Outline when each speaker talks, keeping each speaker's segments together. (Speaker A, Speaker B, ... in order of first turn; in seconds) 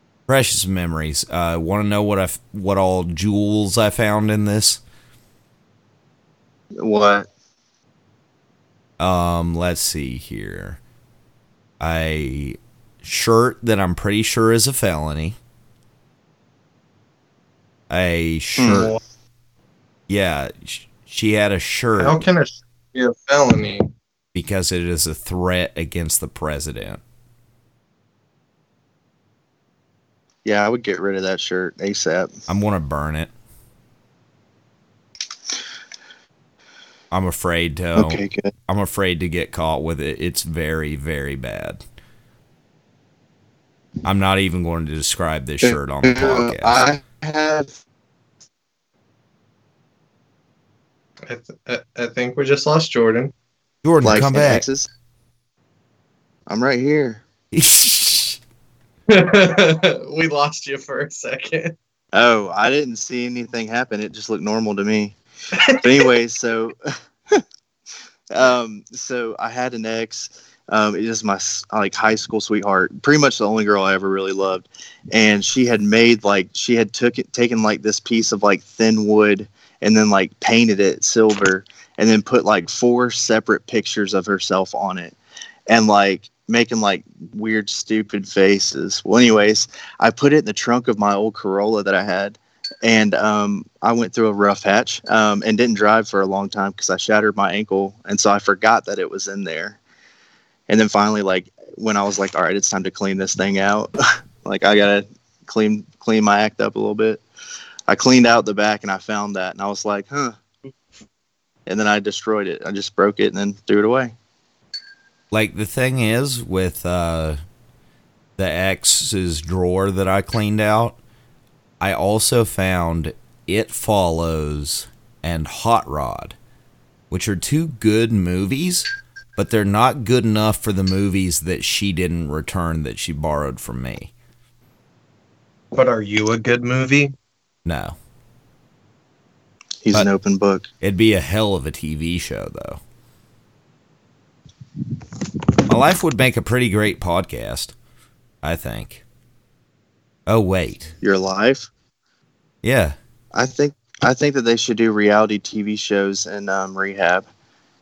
Speaker A: 0.3-4.8, 9.0-10.8, 11.8-15.4, 17.9-18.9, 20.1-22.2, 24.3-27.0, 32.5-33.3, 37.1-41.8, 44.0-46.9, 53.8-54.7, 57.5-58.4, 115.3-117.4, 118.4-121.0, 121.8-126.4, 127.1-134.1, 137.7-138.0, 140.8-142.8, 145.7-147.7, 148.4-149.0, 150.3-150.9, 152.6-153.0
Speaker B: 6.8-7.3, 18.6-18.9, 30.4-32.3, 38.0-38.5, 45.6-47.7, 54.0-54.9, 56.5-57.2, 62.1-65.2, 65.7-67.4, 68.3-85.2, 85.7-99.8, 100.7-107.2, 107.9-110.4, 111.7-114.1, 139.8-140.7, 151.0-151.7, 153.3-157.3
Speaker C: 18.7-19.0, 22.0-23.9, 51.3-53.3, 59.1-61.8, 65.6-66.1, 135.7-137.2